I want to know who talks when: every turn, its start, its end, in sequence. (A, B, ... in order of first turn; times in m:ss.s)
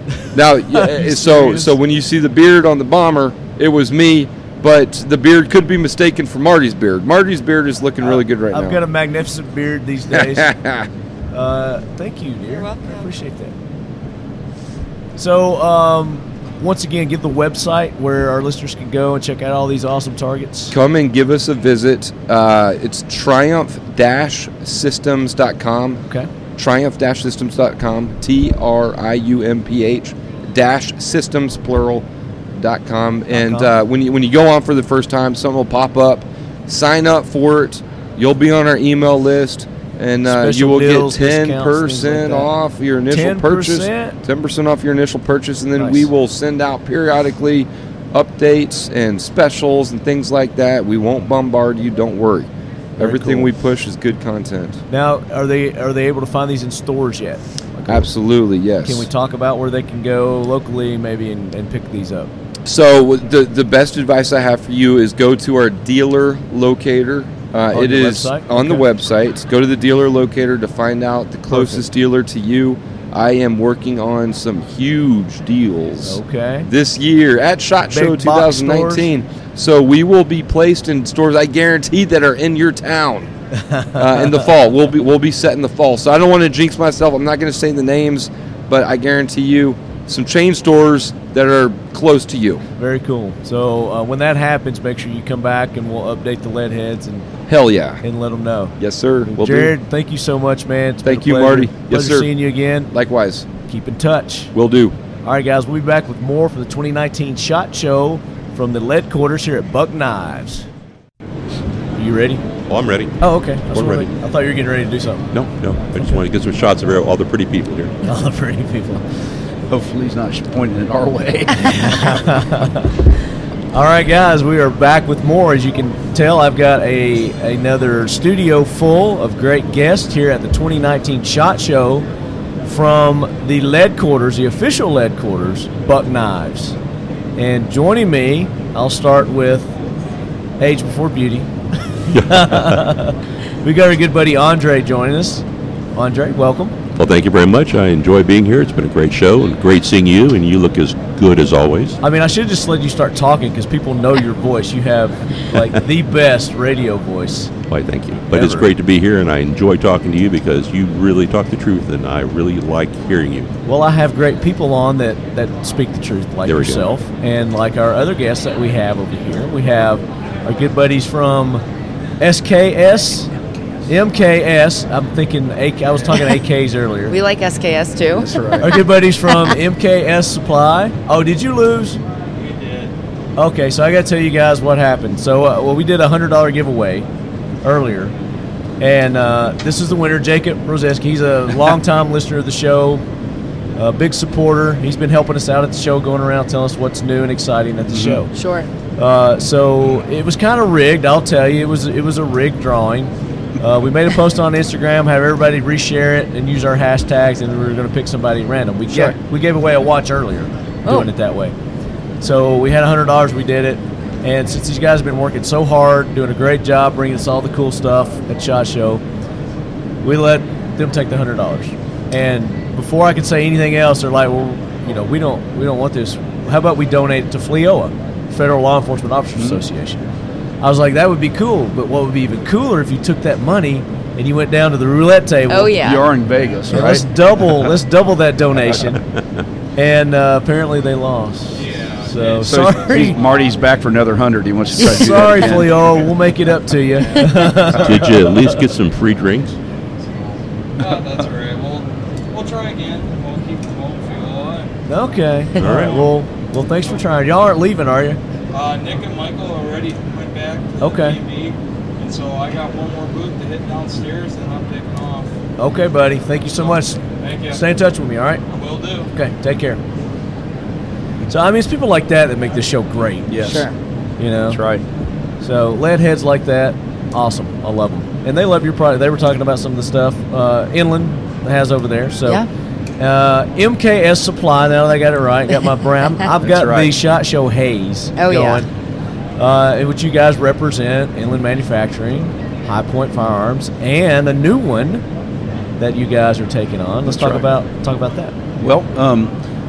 0:00.3-0:08.8 A
0:00.7-0:01.7 B
0:08.0-0:10.5 B
0:10.1-0:10.9 A
0:11.3-0:13.5 B
0:12.5-0:13.1 C
0:15.2-0:20.7 B
0:20.7-0:26.0 A
0:26.6-0:54.8 A
0:33.3-0:33.7 B
0:40.2-0:42.5 B
0:43.1-0:44.2 B
0:45.8-0:46.1 B
0:53.0-0:53.5 B
0:54.9-0:58.1 B
0:57.9-0:59.1 A
0:58.8-1:02.3 B
1:02.6-1:23.3 A
1:07.7-1:08.9 B
1:11.5-1:11.8 B
1:16.0-1:16.7 B
1:17.9-1:19.1 B
1:23.7-1:24.5 B
1:24.0-1:32.6 A
1:32.8-1:37.4 B
1:37.5-1:38.0 A
1:38.0-1:38.7 B
1:38.8-1:39.7 A
1:39.2-1:42.9 B
1:41.0-1:42.3 A
1:42.9-1:43.5 A
1:43.7-1:44.5 B
1:44.5-1:45.0 A
1:45.2-1:50.6 B
1:52.0-1:52.4 B
1:52.7-1:53.2 D
1:53.2-1:55.3 B
1:53.7-1:54.1 D
1:55.3-1:57.9 D
1:58.0-1:59.0 B
1:59.7-2:02.2 E
2:01.6-2:03.0 B
2:03.7-2:12.0 B
2:12.6-2:16.8 B
2:17.4-2:19.7 B
2:20.6-2:21.5 B
2:22.0-2:25.4 B
2:22.1-2:22.8 D
2:26.0-2:26.7 B
2:27.0-2:32.0 D
2:32.0-2:37.5 B
2:37.7-2:43.5 D
2:38.3-2:38.7 B
2:43.6-2:51.6 B
2:46.4-2:46.9 D
2:52.2-2:53.3 B
2:53.9-2:57.2 B
2:57.1-2:58.4 C
2:58.1-2:58.8 E
2:58.6-3:02.0 B
3:02.4-3:02.9 F
3:03.4-3:07.0 B
3:07.6-3:08.1 B
3:08.8-3:13.0 B
3:13.8-3:18.3 B
3:17.9-3:18.2 E
3:18.3-3:18.7 C
3:19.0-3:31.5 B
3:32.2-3:39.0 B
3:40.0-3:50.0 B
3:49.4-3:49.6 E
3:50.6-3:55.7 B
3:55.5-3:56.1 C
3:55.8-3:57.1 E
3:56.7-3:59.0 B
3:59.8-4:03.2 B
4:01.5-4:03.6 F
4:02.4-4:05.8 E
4:04.8-4:08.6 B
4:07.7-4:09.6 D
4:10.0-4:14.7 F
4:14.9-4:18.2 B
4:15.6-4:16.0 D
4:15.7-4:16.1 F
4:18.5-4:25.3 F
4:20.8-4:21.2 B
4:25.6-4:28.4 B
4:26.4-4:27.6 F
4:28.5-4:29.1 F
4:29.1-4:29.8 B
4:31.3-4:33.4 B
4:33.3-4:33.6 E
4:33.4-4:33.7 C
4:34.2-4:34.6 B
4:34.5-4:34.8 E
4:35.4-4:42.4 B
4:43.0-4:48.7 B
4:46.4-4:46.9 E
4:48.2-4:48.6 C
4:49.4-4:55.0 B
4:55.8-4:58.4 B
4:57.1-4:57.4 E
4:58.6-4:59.3 E